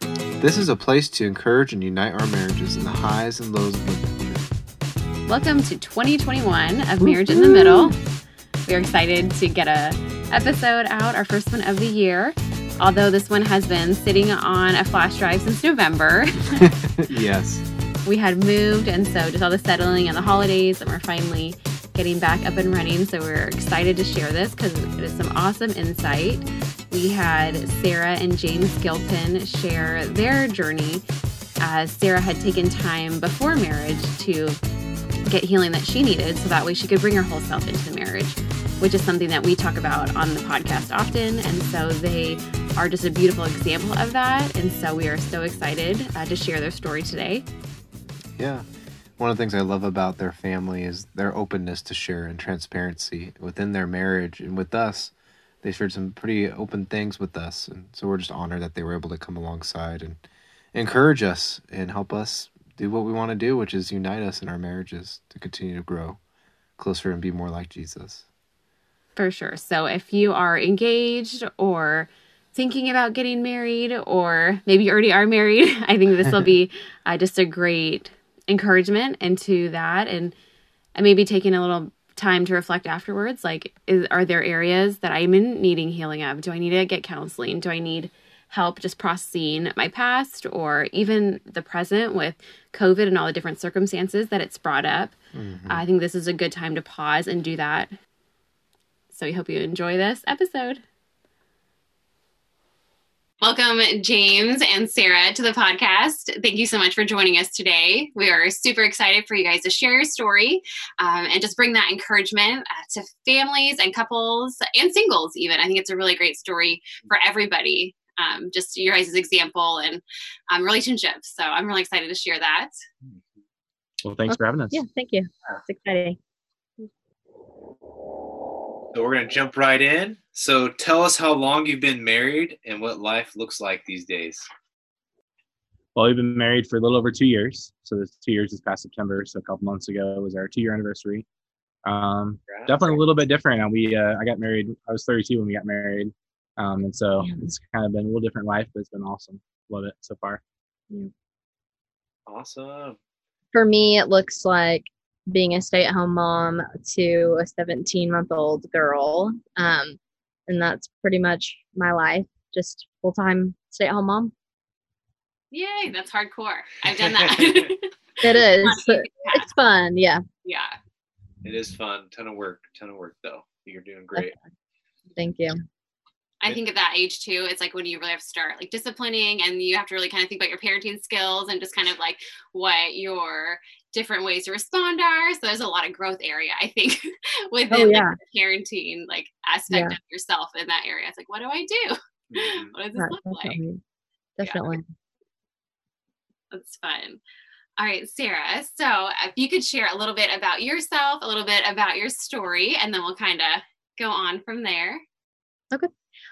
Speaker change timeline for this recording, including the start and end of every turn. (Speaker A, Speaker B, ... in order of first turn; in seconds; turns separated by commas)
Speaker A: 0.4-4.5, Speaker B: 5.3-8.0, Speaker C: 7.0-7.9, Speaker B: 8.7-16.7, Speaker A: 16.6-17.6, Speaker B: 18.0-31.0, Speaker B: 31.6-34.6, Speaker B: 35.3-47.4, Speaker A: 48.4-60.2, Speaker A: 60.7-66.2, Speaker A: 66.8-68.3, Speaker B: 69.2-80.3, Speaker B: 80.9-95.1, Speaker A: 95.3-95.8, Speaker B: 95.7-97.9, Speaker B: 99.1-100.8, Speaker B: 103.4-122.8, Speaker D: 124.0-124.8, Speaker C: 124.3-126.2, Speaker E: 128.9-134.5, Speaker D: 135.9-141.2, Speaker D: 141.8-150.4, Speaker E: 142.5-143.0, Speaker E: 152.2-153.0, Speaker C: 153.5-164.3, Speaker B: 165.5-169.5, Speaker E: 167.1-167.6, Speaker C: 168.2-170.2, Speaker B: 170.4-170.8, Speaker E: 171.4-174.3, Speaker C: 175.2-175.6, Speaker B: 176.4-193.6, Speaker C: 187.7-188.2, Speaker C: 189.7-189.9, Speaker E: 192.3-192.7, Speaker C: 192.9-193.8, Speaker C: 194.4-194.9, Speaker B: 194.4-194.8, Speaker B: 196.5-197.2, Speaker B: 197.8-205.0